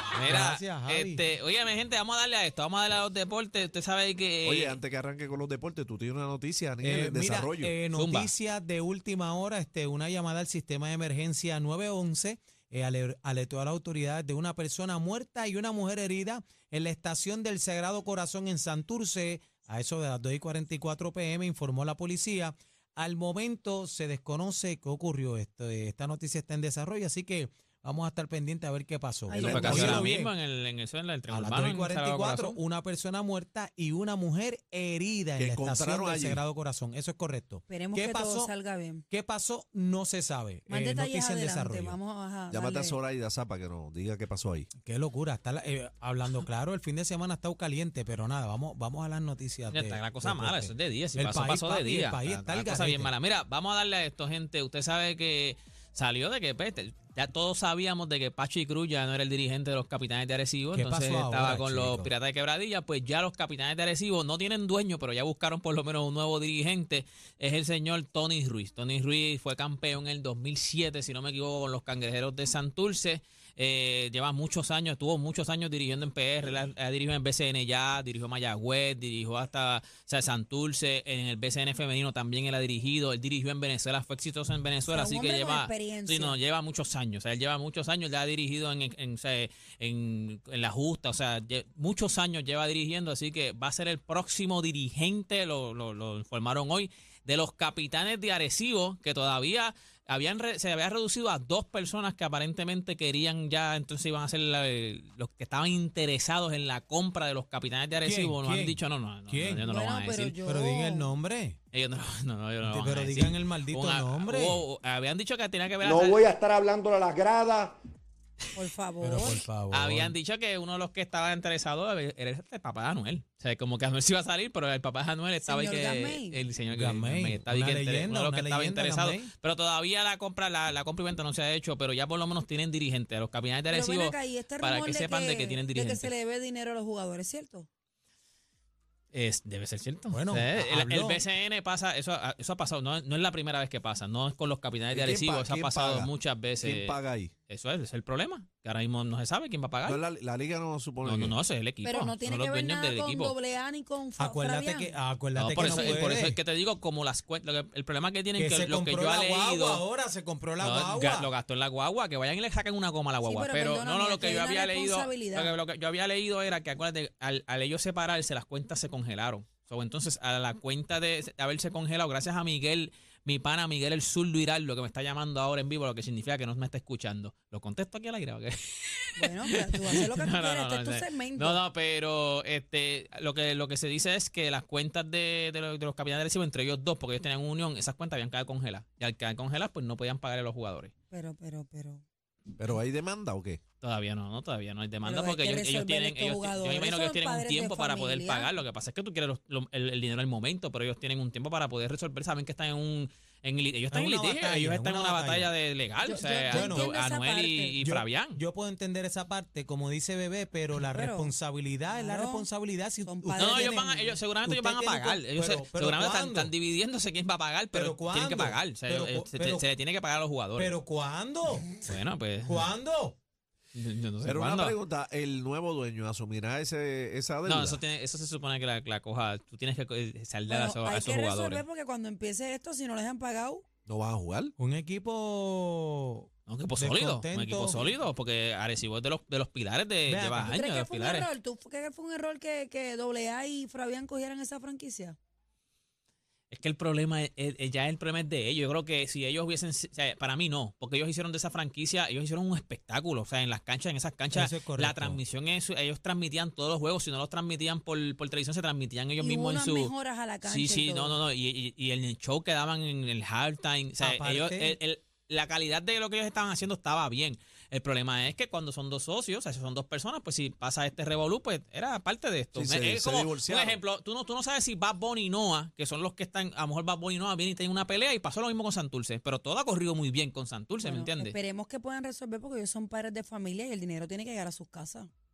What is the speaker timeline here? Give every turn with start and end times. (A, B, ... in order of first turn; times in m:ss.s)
0:00.1-0:04.8 A
0:00.3-0:01.2 B
0:04.4-0:07.8 C
0:06.8-0:30.3 B
0:07.9-0:08.3 A
0:29.3-0:32.6 A
0:29.3-0:30.1 C
0:29.6-0:29.9 D
0:31.3-0:38.5 B
0:35.4-0:36.4 C
0:37.7-0:39.0 D
0:39.1-0:42.0 B
0:40.7-0:43.0 D
0:42.5-0:44.7 C
0:44.8-0:53.1 B
0:49.7-1:50.4 A
1:00.7-1:02.1 B
1:24.9-1:26.4 D
1:48.0-1:49.7 B
1:49.7-1:51.1 D
1:50.4-1:51.6 B
1:51.7-1:56.4 A
1:52.6-1:54.6 B
1:55.8-1:57.8 E
1:58.6-1:59.4 D
1:59.0-2:00.1 B
1:59.7-2:16.1 A
2:05.4-2:06.4 D
2:06.7-2:09.3 B
2:13.7-2:17.7 D
2:19.1-2:27.0 A
2:20.1-2:21.2 B
2:24.9-2:27.3 C
2:27.5-2:30.0 A
2:29.9-2:31.4 C
2:31.0-2:33.4 A
2:31.8-2:34.9 D
2:34.2-2:36.4 B
2:35.4-2:39.8 A
2:35.6-2:36.1 D
2:38.4-2:41.3 B
2:40.6-3:10.9 A
2:43.2-2:45.6 D
2:59.2-3:01.6 D
3:11.1-3:12.0 D
3:12.6-3:13.6 C
3:13.8-3:28.4 A
3:15.0-3:18.5 D
3:23.9-3:25.5 B
3:26.0-3:27.8 D
3:26.5-3:26.9 B
3:27.8-3:36.5 B
3:30.8-3:31.3 D
3:31.9-3:32.5 D
3:33.0-3:34.2 D
3:33.4-3:40.7 A
3:37.7-3:39.7 B
3:40.6-3:41.7 B
3:41.8-3:42.7 A
3:42.5-3:43.2 B
3:43.8-3:44.8 A
3:44.2-3:47.8 C
3:47.4-3:51.6 A
3:50.5-3:53.7 D
3:53.9-3:54.5 C
3:54.6-3:58.0 B
3:56.5-4:01.3 A
4:00.1-4:00.6 B
4:00.4-4:05.2 D
4:06.5-4:19.9 A
4:14.3-4:15.2 B
4:19.2-4:21.2 D
4:20.4-4:41.4 A
4:24.0-4:24.8 B
4:32.5-4:33.8 C
4:40.8-4:45.1 D